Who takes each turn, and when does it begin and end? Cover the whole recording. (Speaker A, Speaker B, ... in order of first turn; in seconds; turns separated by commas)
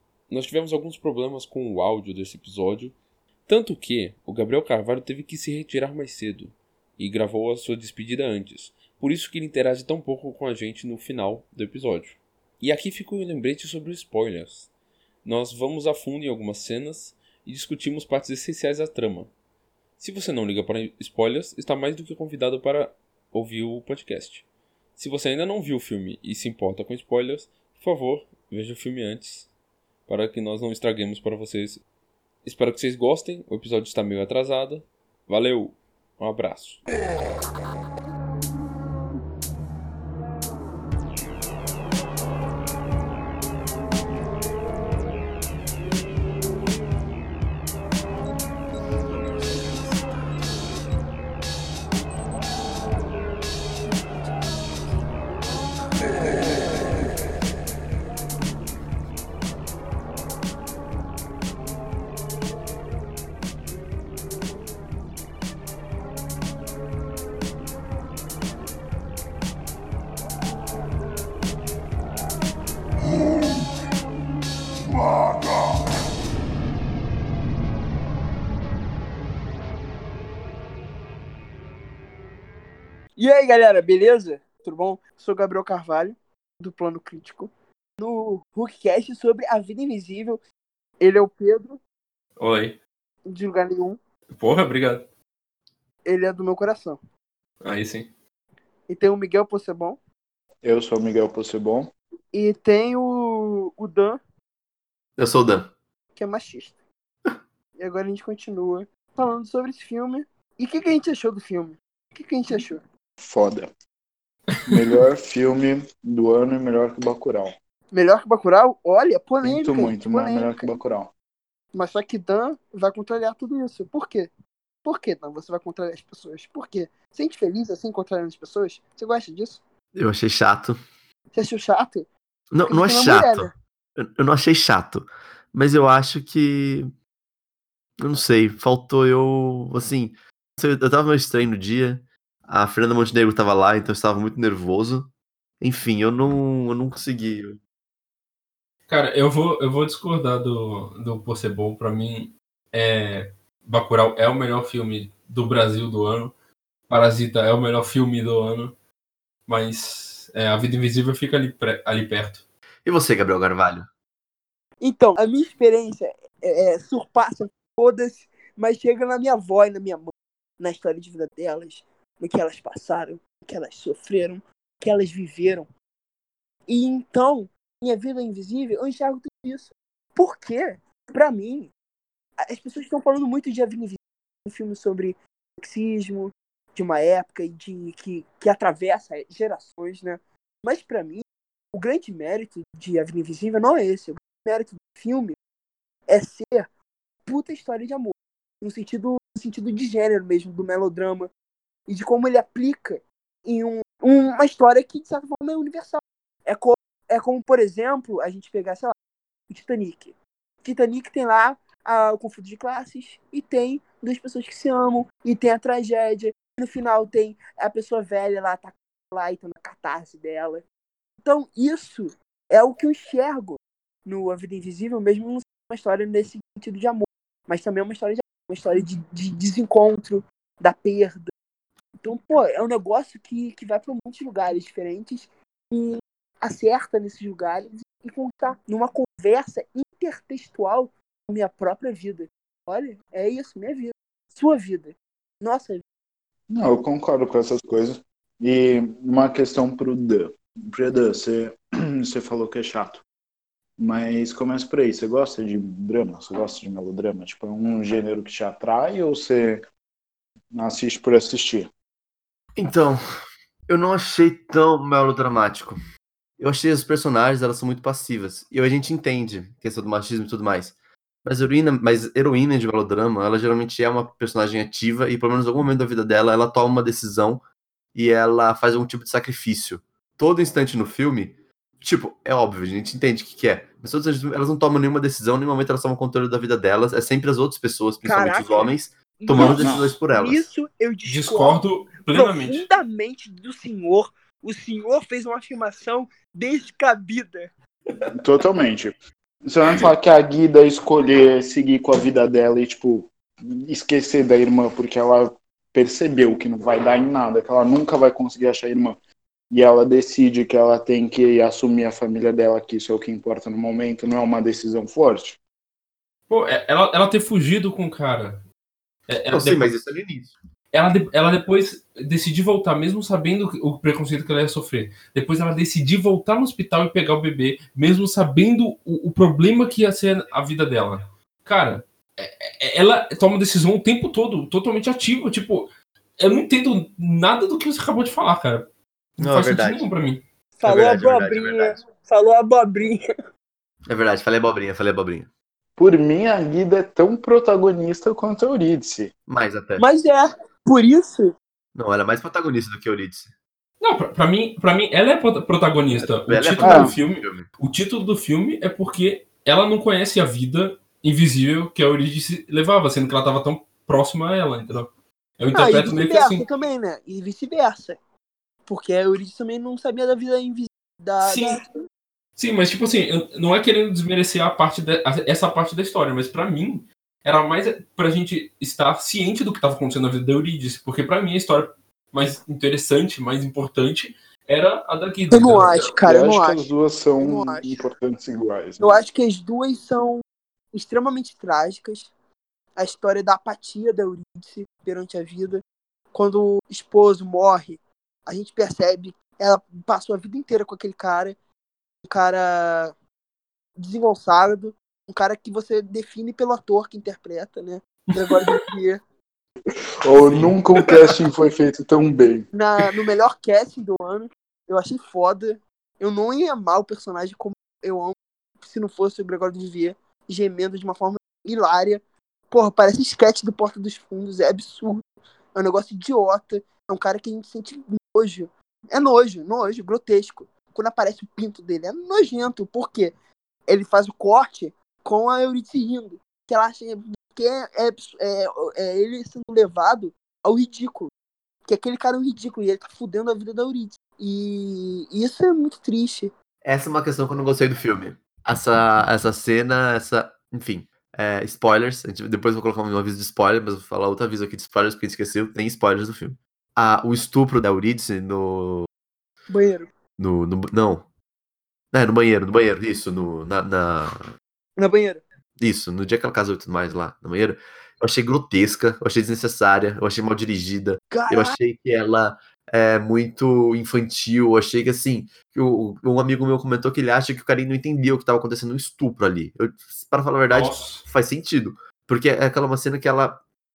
Speaker A: 0.3-3.0, Speaker A: 3.5-14.7, Speaker A: 15.2-19.3, Speaker A: 20.0-24.4, Speaker A: 25.0-29.5, Speaker A: 30.1-31.8, Speaker A: 32.4-36.8, Speaker B: 83.2-90.4, Speaker B: 91.0-91.8, Speaker C: 92.4-92.8, Speaker B: 93.3-94.0, Speaker C: 94.3-95.1, Speaker B: 96.1-97.0, Speaker C: 97.6-98.1, Speaker B: 98.9-100.0, Speaker D: 100.6-101.9, Speaker B: 102.3-104.2, Speaker E: 105.2-105.7, Speaker B: 106.2-106.8, Speaker B: 107.8-112.8, Speaker D: 113.2-113.7, Speaker C: 114.6-114.8, Speaker D: 114.7-117.5, Speaker B: 117.9-120.7, Speaker D: 119.4-121.1, Speaker B: 121.7-124.3, Speaker B: 124.8-129.6, Speaker E: 130.0-130.8, Speaker B: 131.3-132.1, Speaker E: 132.5-136.9, Speaker B: 132.7-133.5, Speaker E: 138.0-147.6, Speaker C: 148.9-156.3, Speaker C: 156.9-158.8, Speaker C: 159.5-162.4, Speaker E: 162.9-163.9, Speaker B: 164.8-175.7, Speaker B: 176.7-181.7, Speaker B: 182.4-195.4, Speaker B: 196.1-196.7, Speaker B: 197.3-201.3, Speaker B: 201.9-208.9, Speaker B: 209.5-220.6, Speaker B: 221.2-231.3, Speaker B: 232.0-245.8, Speaker D: 246.5-253.0, Speaker D: 253.8-259.6, Speaker D: 260.5-261.7, Speaker E: 262.6-263.0, Speaker E: 263.7-265.8, Speaker E: 266.4-277.4, Speaker E: 277.9-290.5, Speaker B: 288.0-297.5, Speaker D: 289.4-289.9, Speaker C: 291.1-292.7, Speaker D: 298.1-298.9, Speaker D: 299.5-309.0, Speaker D: 309.5-315.4, Speaker C: 316.3-318.4, Speaker C: 319.1-319.7, Speaker E: 319.3-320.4, Speaker C: 320.7-340.2, Speaker E: 339.2-339.9, Speaker B: 340.6-343.1, Speaker E: 340.6-341.8, Speaker E: 343.9-345.3, Speaker D: 345.8-349.1, Speaker E: 349.3-349.9, Speaker B: 349.8-351.3, Speaker E: 351.8-353.3, Speaker C: 353.8-366.5, Speaker E: 355.9-357.5, Speaker D: 356.6-356.9, Speaker B: 365.5-368.0, Speaker B: 368.7-371.7, Speaker C: 371.2-371.6, Speaker C: 372.4-385.9, Speaker B: 385.3-386.6, Speaker D: 386.0-389.0, Speaker B: 387.2-387.8, Speaker B: 388.8-390.2, Speaker B: 390.7-392.1, Speaker B: 392.8-395.6, Speaker B: 396.1-401.4, Speaker B: 402.1-402.9, Speaker B: 403.8-409.0, Speaker C: 408.1-408.6, Speaker D: 410.0-412.5, Speaker C: 410.3-410.5, Speaker B: 412.5-425.0, Speaker B: 425.6-433.1, Speaker B: 433.7-441.1, Speaker B: 441.7-446.3, Speaker E: 446.6-458.9, Speaker B: 459.5-459.9, Speaker E: 460.2-461.1, Speaker E: 461.9-464.3, Speaker B: 464.8-465.2, Speaker E: 465.6-483.4, Speaker B: 471.1-471.6, Speaker C: 480.5-481.1